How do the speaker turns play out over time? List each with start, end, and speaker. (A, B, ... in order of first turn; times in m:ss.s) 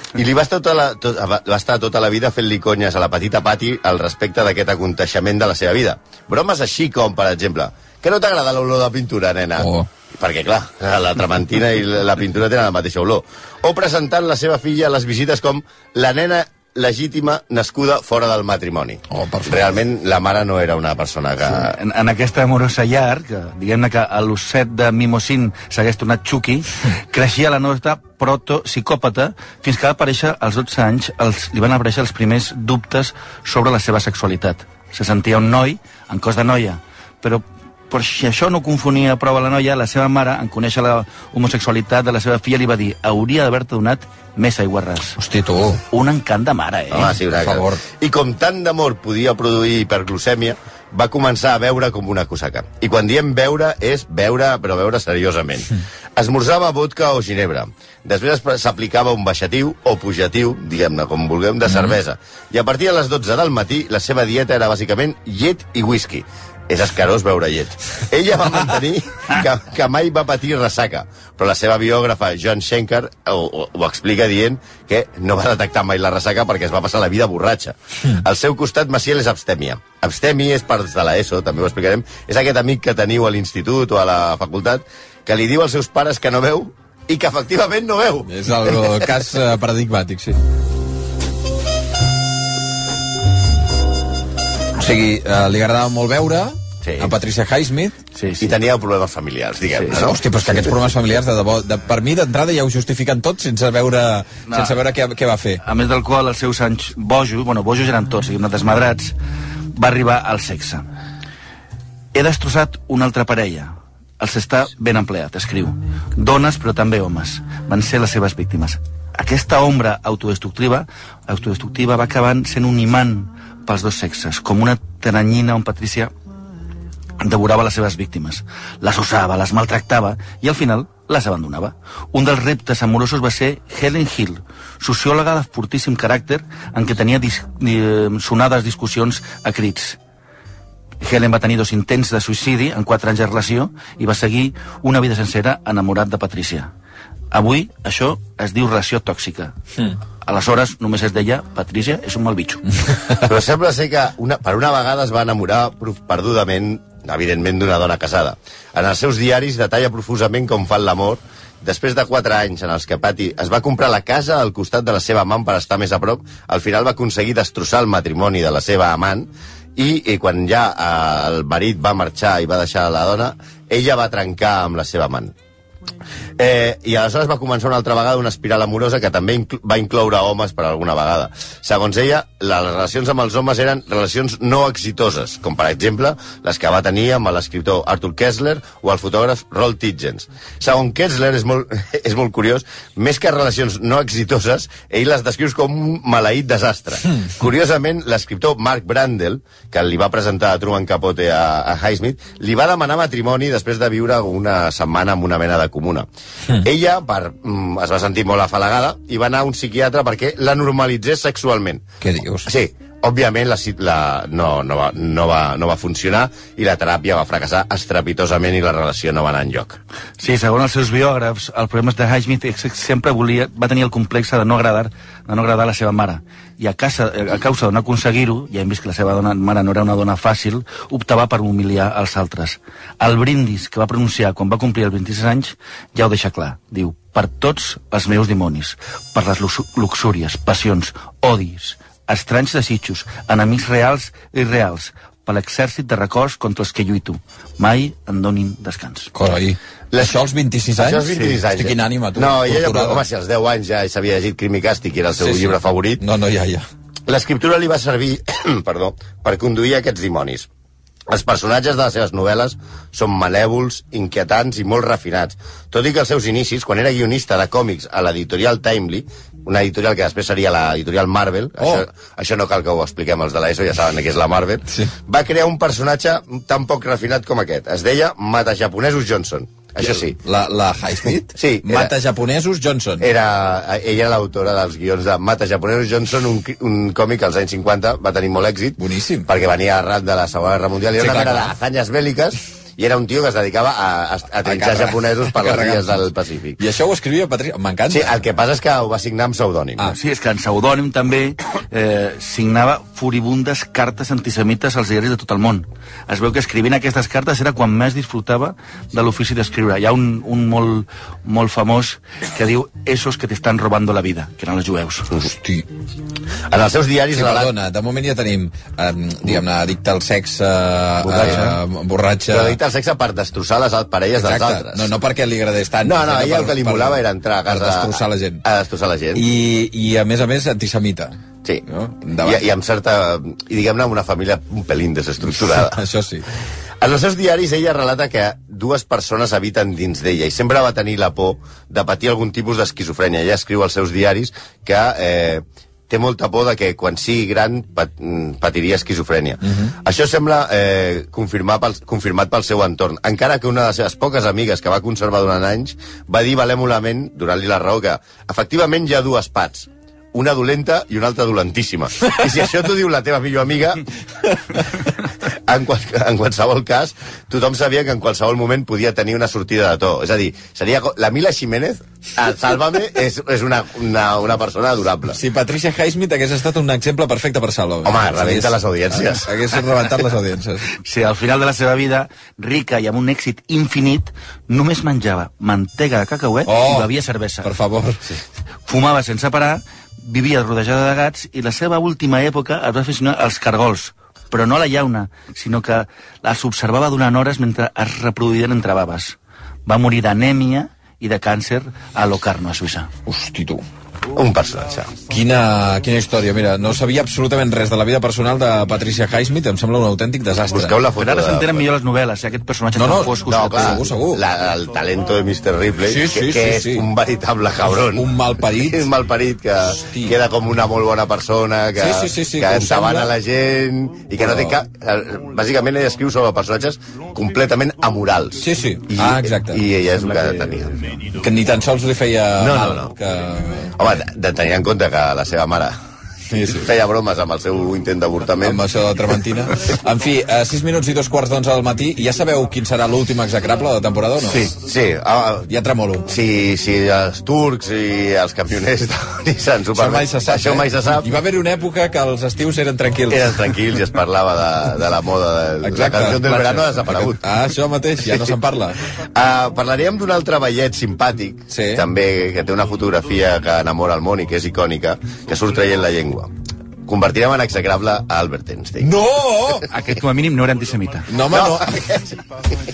0:00.2-0:21.8 A
0:09.6-0:09.9 B
0:19.1-0:19.7 B
0:21.5-0:45.2 C
0:45.2-0:45.8 B
0:45.9-0:47.1 C
0:46.9-1:28.9 A
0:47.2-0:47.8 B
1:01.7-1:01.9 B
1:28.3-1:30.4 B
1:34.8-1:38.0 B
1:36.8-1:37.1 A
1:38.1-1:38.5 C
1:38.4-1:40.2 A
1:39.9-1:45.6 B
1:44.5-1:44.8 C
1:45.6-1:49.2 C
1:49.7-1:50.9 C
1:52.1-2:06.1 C
2:07.2-2:20.0 C
2:21.0-2:26.7 C
2:27.3-2:29.6 C
2:30.2-2:32.7 C
2:33.1-2:55.3 A
2:56.4-3:31.8 A
3:32.0-3:32.5 B
3:32.5-3:39.8 A
3:40.2-4:09.1 C
4:09.1-4:13.0 B
4:09.9-4:10.2 A
4:10.8-4:16.0 A
4:15.2-4:16.6 B
4:17.1-4:20.5 A
4:21.1-4:40.2 A
4:31.6-4:31.8 B
4:39.8-4:43.1 B
4:41.4-4:41.9 A
4:43.0-4:56.6 A
4:48.8-4:49.3 B
4:51.0-4:51.5 B
4:54.4-4:56.0 B
4:56.6-4:58.2 B
4:57.9-5:00.0 A
4:59.9-5:15.1 C
5:15.2-5:15.7 B
5:16.5-5:17.5 A
5:17.2-5:22.6 B
5:21.0-5:21.6 C
5:21.2-5:21.5 A
5:22.3-5:24.9 A
5:24.2-5:28.4 B
5:25.8-5:29.2 A
5:29.2-5:32.4 B
5:32.2-5:35.8 A
5:35.3-5:36.3 B
5:36.8-6:04.6 A
6:05.3-6:15.2 A
6:15.1-6:20.7 B
6:17.8-6:19.3 A
6:20.8-6:27.6 C
6:26.5-6:26.9 B
6:27.4-6:28.1 B
6:28.7-6:42.9 C
6:43.1-6:43.6 B
6:44.1-6:44.9 A
6:45.1-6:50.8 B
6:50.5-6:51.7 A
6:51.0-6:53.9 C
6:52.8-6:54.2 B
6:53.2-7:10.9 A
6:55.9-6:56.9 B
6:57.7-6:58.9 B
6:59.8-7:00.2 B
7:01.8-7:03.1 B
7:04.2-7:04.6 B
7:08.4-7:09.6 B
7:11.1-7:14.0 B
7:12.4-7:12.9 A
7:13.8-7:15.8 A
7:16.3-7:16.7 B
7:16.4-7:18.6 A
7:18.4-7:24.5 B
7:24.3-7:25.5 A
7:25.5-7:26.1 B
7:26.1-7:31.1 A
7:29.7-7:33.5 B
7:33.1-7:37.2 A
7:35.6-7:38.8 B
7:38.1-7:38.3 A
7:39.2-7:46.3 A
7:41.5-7:41.8 B
7:46.9-7:48.9 A
7:48.8-7:49.7 B
7:49.7-7:51.1 C
7:51.1-7:51.8 B
7:51.3-7:52.2 A